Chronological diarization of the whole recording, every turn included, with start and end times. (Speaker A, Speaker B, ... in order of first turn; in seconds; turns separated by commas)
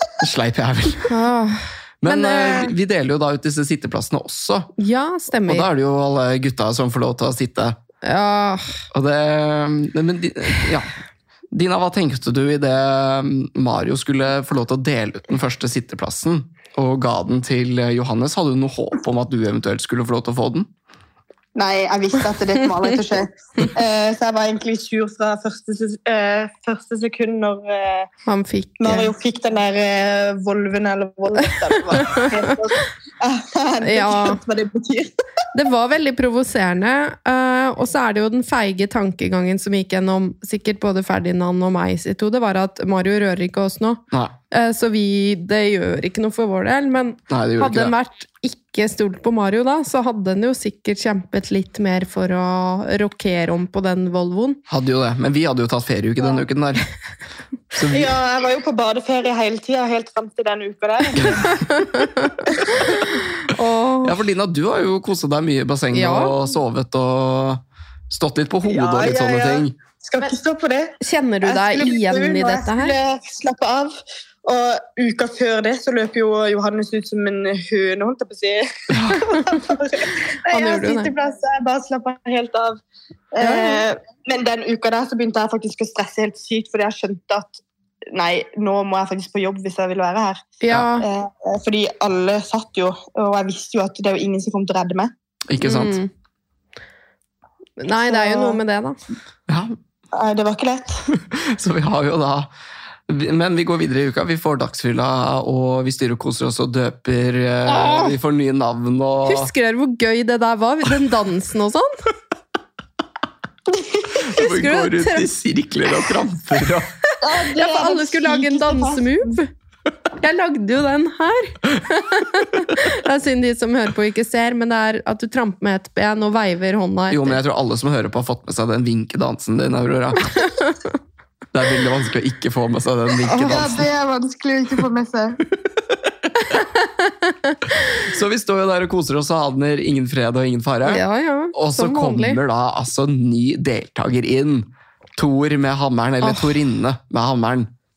Speaker A: 0.2-1.1, Speaker B: 1.1-2.7, Speaker A: 2.0-4.7, Speaker B: 4.8-5.7, Speaker A: 5.5-7.8, Speaker B: 8.0-8.8, Speaker A: 8.9-10.9, Speaker A: 11.5-20.7, Speaker C: 21.5-28.1, Speaker B: 28.3-29.1, Speaker C: 28.8-35.1, Speaker B: 31.5-32.5, Speaker B: 33.8-34.4, Speaker B: 35.5-54.6, Speaker A: 47.3-47.9, Speaker A: 54.7-56.8, Speaker A: 57.7-58.1, Speaker C: 57.9-61.6, Speaker A: 61.1-61.6, Speaker B: 61.5-64.2, Speaker C: 62.5-62.8, Speaker A: 64.0-69.7, Speaker B: 65.9-66.3, Speaker C: 68.7-82.8, Speaker B: 71.0-72.9, Speaker A: 78.9-79.2, Speaker B: 79.3-79.6, Speaker B: 80.5-81.1, Speaker C: 83.3-95.1, Speaker B: 83.4-83.8, Speaker B: 90.6-91.0, Speaker A: 95.5-96.0, Speaker B: 95.6-96.1, Speaker B: 97.8-99.0, Speaker C: 98.0-98.6, Speaker A: 99.5-99.8, Speaker C: 100.1-101.0, Speaker A: 101.1-102.5, Speaker A: 103.1-109.5, Speaker B: 107.7-108.2, Speaker B: 109.2-111.9, Speaker C: 113.7-114.2, Speaker A: 114.1-116.9, Speaker B: 114.3-115.3, Speaker B: 117.0-119.5, Speaker C: 117.2-119.3, Speaker B: 120.2-127.4, Speaker A: 127.1-130.5, Speaker A: 131.5-133.9, Speaker C: 133.2-135.4, Speaker A: 138.0-147.7, Speaker B: 140.8-142.4, Speaker B: 146.2-146.5